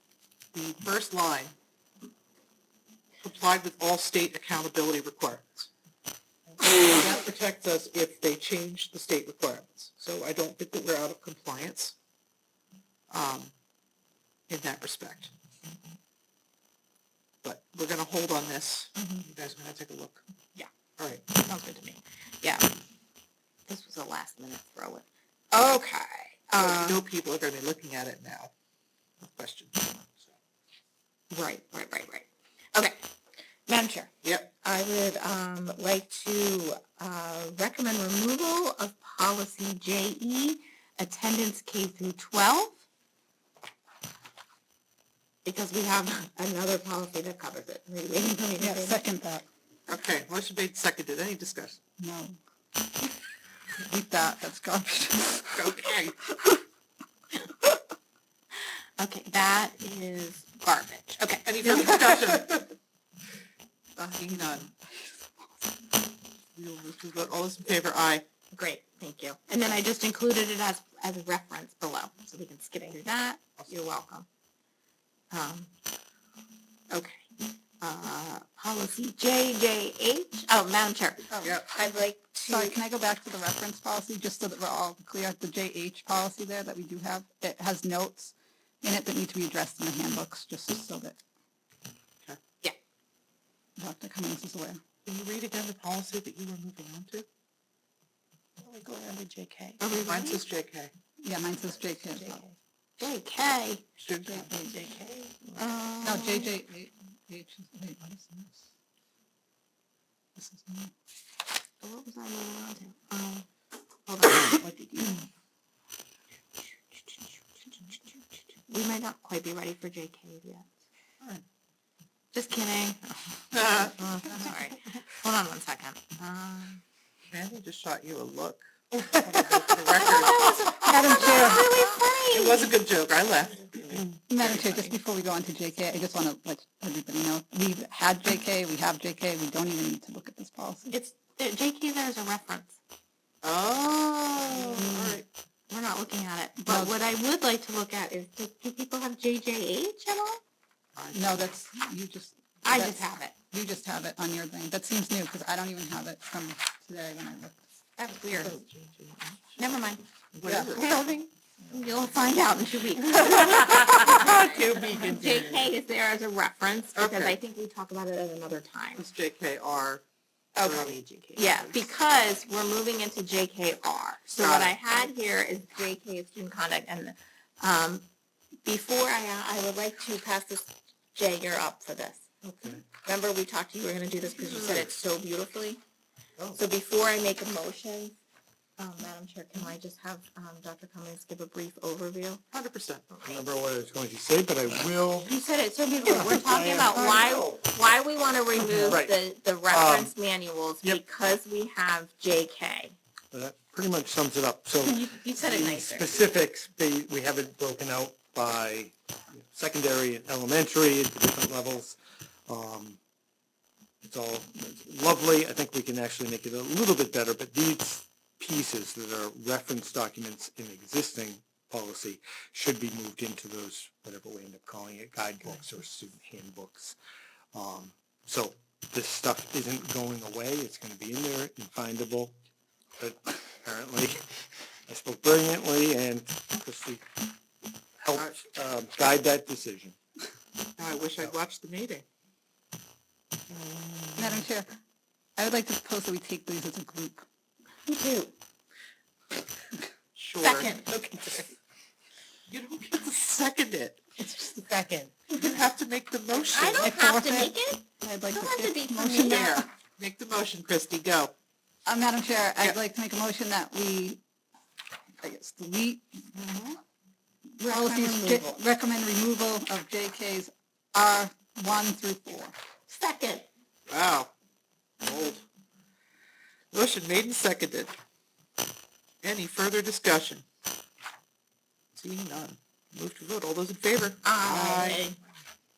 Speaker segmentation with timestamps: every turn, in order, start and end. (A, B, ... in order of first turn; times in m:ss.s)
0:00.5-0:01.6 A
0:03.2-0:05.7 A
0:06.6-0:12.0 A
0:13.1-0:13.5 A
0:14.5-0:15.3 A
0:17.4-0:20.2 A
0:19.0-0:19.2 B
0:21.0-0:21.3 A
0:21.4-0:22.7 B
0:23.7-0:27.0 B
0:26.6-0:28.5 A
0:29.2-0:30.4 A
0:31.3-0:33.0 B
0:33.7-0:42.8 B
0:34.2-0:34.5 A
0:45.4-0:49.0 B
0:48.6-0:49.5 C
0:49.9-0:51.8 A
0:52.0-0:52.4 C
0:53.8-0:55.8 C
0:55.5-0:56.2 A
0:59.0-1:02.2 B
1:01.4-1:02.7 A
1:04.0-1:04.7 A
1:06.6-1:08.2 A
1:08.5-1:14.3 B
1:15.3-1:15.7 B
1:16.9-1:17.3 B
1:17.8-1:22.8 B
1:21.3-1:21.6 C
1:22.4-1:31.2 C
1:33.8-1:34.8 C
1:35.0-1:37.3 A
1:38.6-1:40.9 A
1:39.8-1:40.4 B
1:41.2-1:42.4 C
1:42.2-1:43.8 B
1:44.0-1:45.6 A
1:44.2-1:44.8 C
1:45.6-1:46.5 B
1:46.0-1:48.7 C
1:50.4-1:50.9 C
1:51.8-1:53.5 B
1:54.1-1:55.2 B
1:54.6-1:54.9 A
1:57.0-2:00.7 B
2:01.2-2:01.4 A
2:02.3-2:06.8 B
2:03.5-2:04.7 A
2:07.3-2:14.9 A
2:09.9-2:12.7 B
2:10.8-2:11.7 C
2:14.3-2:21.0 C
2:20.9-2:22.8 B
2:23.4-2:25.3 A
2:24.5-2:30.4 B
2:26.7-2:27.0 C
2:31.0-2:31.4 A
2:31.1-2:37.7 C
2:32.6-2:33.4 B
2:38.0-2:38.7 B
2:38.3-2:39.6 A
2:39.5-2:41.0 B
2:40.4-2:41.3 A
2:41.7-2:49.0 B
2:43.1-2:45.7 A
2:47.0-2:47.4 A
2:49.0-2:50.0 A
2:50.6-2:51.9 A
2:50.6-2:58.1 B
2:54.4-2:54.8 A
2:58.6-3:02.3 B
3:02.6-3:02.8 D
3:03.0-3:05.8 B
3:06.6-3:08.2 B
3:08.8-3:12.4 B
3:12.5-3:13.0 A
3:13.1-3:13.4 B
3:13.2-3:15.3 D
3:15.2-3:23.0 B
3:16.0-3:17.6 D
3:18.7-3:20.2 D
3:23.3-3:33.0 D
3:24.8-3:26.1 B
3:34.0-3:47.0 D
3:47.5-3:52.4 D
3:53.0-3:54.2 D
3:54.9-3:57.0 D
3:58.0-4:00.0 D
4:00.8-4:02.0 A
4:03.5-4:04.5 A
4:04.2-4:04.7 C
4:05.4-4:07.2 C
4:07.9-4:08.3 B
4:10.2-4:10.8 A
4:10.4-4:11.5 B
4:12.5-4:14.1 A
4:14.2-4:15.0 C
4:14.6-4:15.1 B
4:15.3-4:17.0 A
4:16.5-4:19.6 B
4:16.8-4:19.7 C
4:19.1-4:21.3 A
4:21.9-4:24.2 C
4:25.2-4:26.1 C
4:26.3-4:26.8 B
4:27.6-4:28.5 B
4:27.6-4:32.6 C
4:32.9-4:33.5 B
4:33.9-4:34.3 A
4:35.0-4:35.4 A
4:36.7-4:38.0 A
4:39.2-4:40.4 A
4:41.9-4:45.0 A
4:44.2-4:45.2 B